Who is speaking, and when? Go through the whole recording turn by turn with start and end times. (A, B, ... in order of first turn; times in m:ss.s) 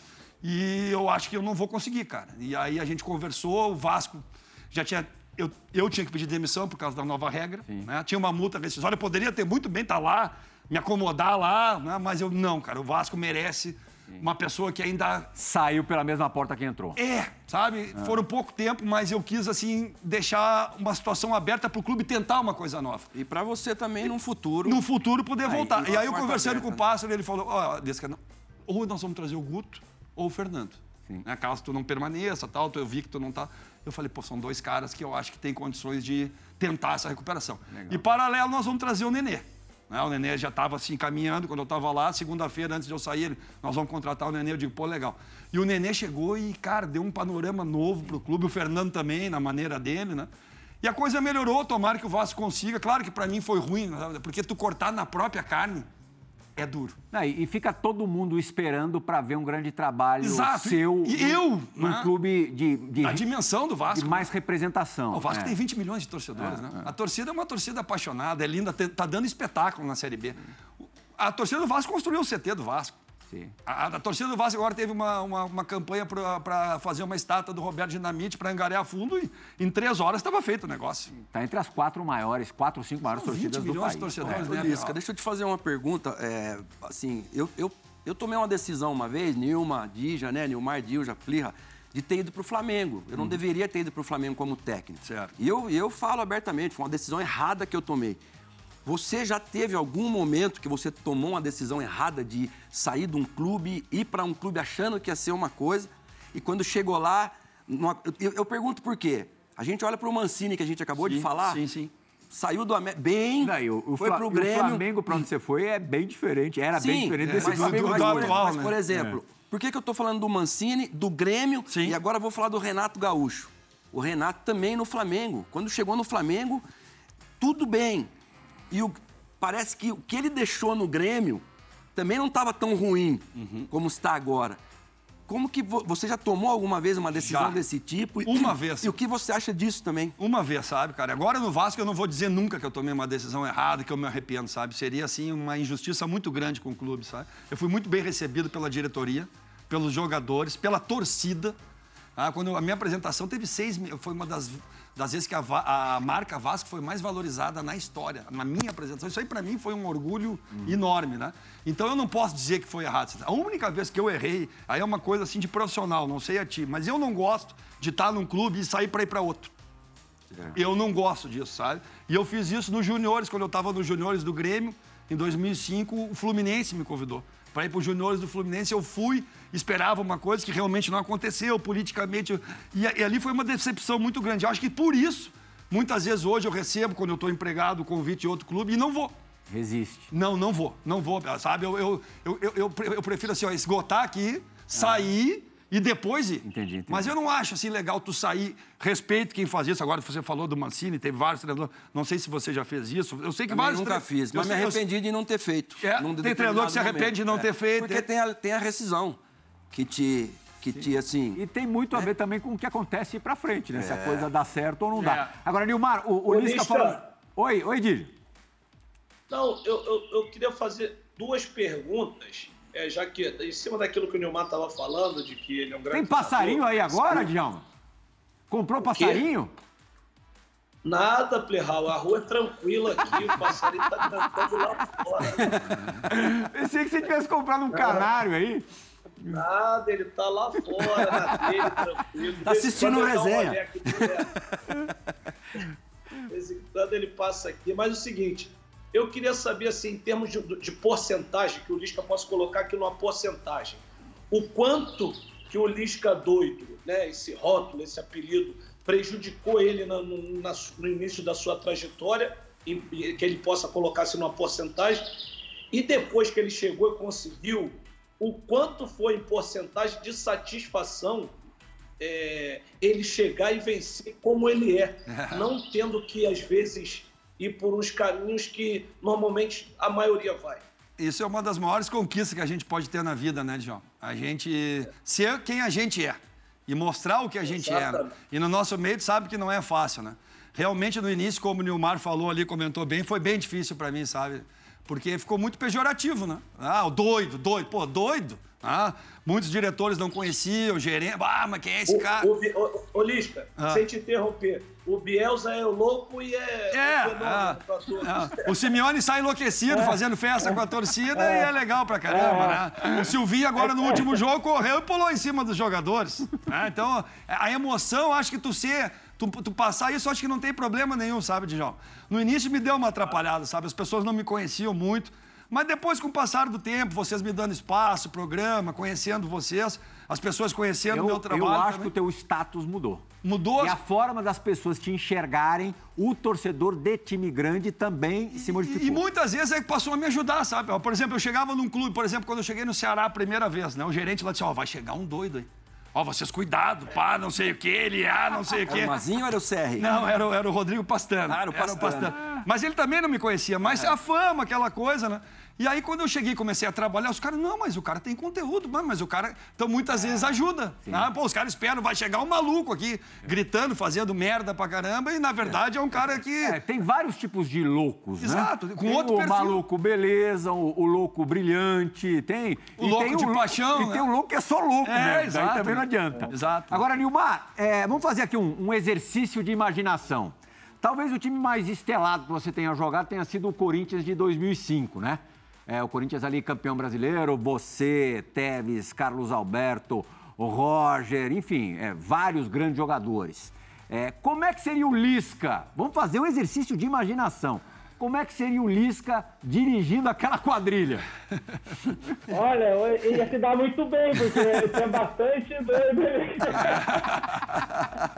0:00.4-0:15.3 A
0:15.4-0:17.0 B
0:17.0-0:23.1 A
0:23.1-0:24.8 C
0:24.6-0:50.3 A
0:25.5-0:26.8 C
0:37.7-0:38.0 B
0:50.8-0:55.9 A
0:56.6-0:57.0 A
0:57.1-1:03.2 B
1:00.2-1:02.1 A
1:03.0-1:04.3 A
1:03.9-1:05.6 B
1:05.1-1:10.4 A
1:06.4-1:06.9 B
1:11.2-1:13.0 A
1:13.6-1:21.2 A
1:21.2-1:24.5 B
1:23.1-1:25.0 A
1:24.2-1:38.2 C
1:35.0-1:35.3 A
1:38.8-1:51.6 C
1:51.0-1:51.9 A
1:52.3-1:54.8 C
1:53.4-1:58.4 B
1:56.8-2:06.6 C
1:57.2-1:58.8 A
2:01.7-2:02.0 A
2:07.4-2:08.1 C
2:08.7-2:11.4 C
2:11.9-2:14.6 C
2:13.4-2:13.7 A
2:15.3-2:20.2 C
2:17.2-2:17.6 A
2:18.2-2:18.9 A
2:20.2-2:31.6 A
2:32.2-2:49.5 A
2:50.5-3:09.1 A
3:09.5-3:10.1 B
3:10.1-3:24.8 A
3:14.8-3:15.1 B
3:16.4-3:17.1 B
3:23.5-3:29.2 C
3:25.8-3:28.0 A
3:29.7-3:31.4 C
3:31.3-3:38.1 B
3:33.7-3:34.3 C
3:34.9-3:35.3 A
3:36.3-3:37.1 D
3:39.3-3:47.3 D
3:45.9-3:47.6 B
3:48.5-3:49.5 B
3:48.8-3:49.3 D
3:50.8-3:55.8 D
3:56.1-3:58.6 B
3:57.7-3:58.1 D
3:59.3-4:04.4 D
4:02.4-4:04.1 C
4:06.3-4:31.3 D
4:32.0-4:40.6 D
4:35.1-4:35.5 A
4:41.0-5:02.3 A
4:47.4-4:48.1 D
5:01.9-5:08.5 D
5:03.6-5:03.8 A
5:06.7-5:31.9 A
5:30.9-5:33.0 B
5:33.2-5:33.8 A
5:33.6-5:39.0 B
5:38.4-5:49.0 A
5:48.7-5:50.0 C
5:49.8-6:06.6 A
5:51.2-5:52.2 C
6:00.8-6:01.1 B
6:06.4-6:41.0 B
6:08.2-6:09.6 A
6:12.8-6:14.1 A
6:14.8-6:16.8 A
6:42.3-6:46.9 E